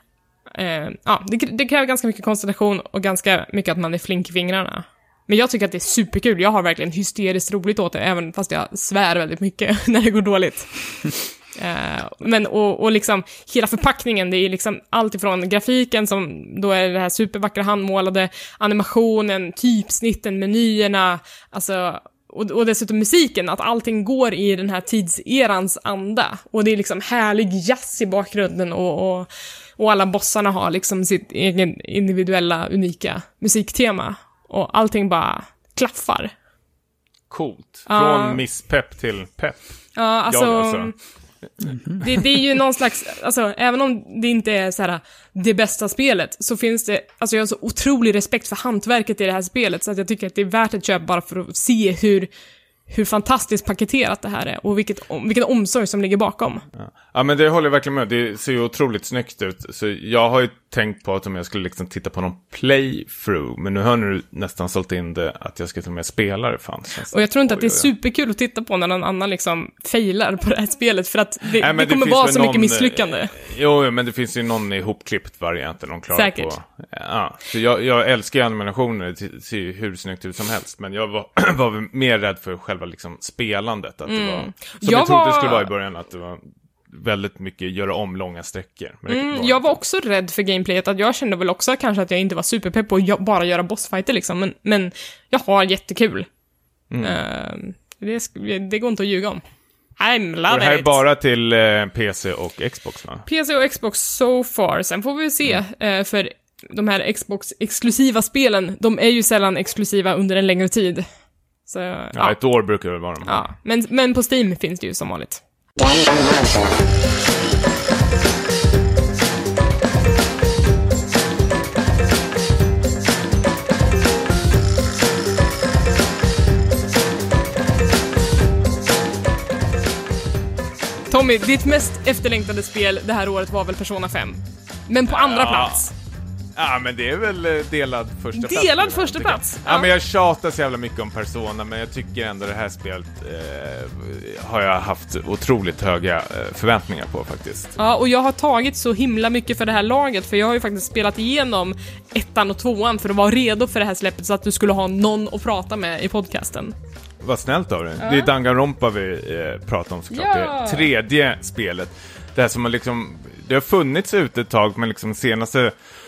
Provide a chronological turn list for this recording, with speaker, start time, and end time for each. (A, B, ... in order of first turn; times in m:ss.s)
0:00.5-0:36.3 A
0:37.3-0:39.7 B
0:37.9-0:38.4 A
0:40.0-0:40.9 A
0:40.3-0:40.9 B
0:41.6-0:42.2 B
0:42.0-0:52.3 A
0:52.9-0:56.6 A
0:56.8-1:07.9 B
1:07.1-1:13.3 A
1:11.5-1:29.8 B
1:16.1-1:16.5 A
1:24.1-1:25.7 A
1:29.1-1:36.3 A
1:36.9-1:37.2 B
1:37.0-1:39.4 A
1:40.0-1:41.0 A
1:40.5-1:43.2 B
1:43.2-1:51.1 A
1:51.7-1:52.4 A
1:52.1-1:53.4 B
1:53.2-1:55.4 A
2:11.1-2:15.9 A
2:15.1-2:15.8 B
2:16.6-2:27.8 B
2:18.3-2:19.9 A
2:27.8-2:36.7 A
2:37.2-2:45.7 B
2:38.0-2:38.3 A
2:40.1-2:40.9 A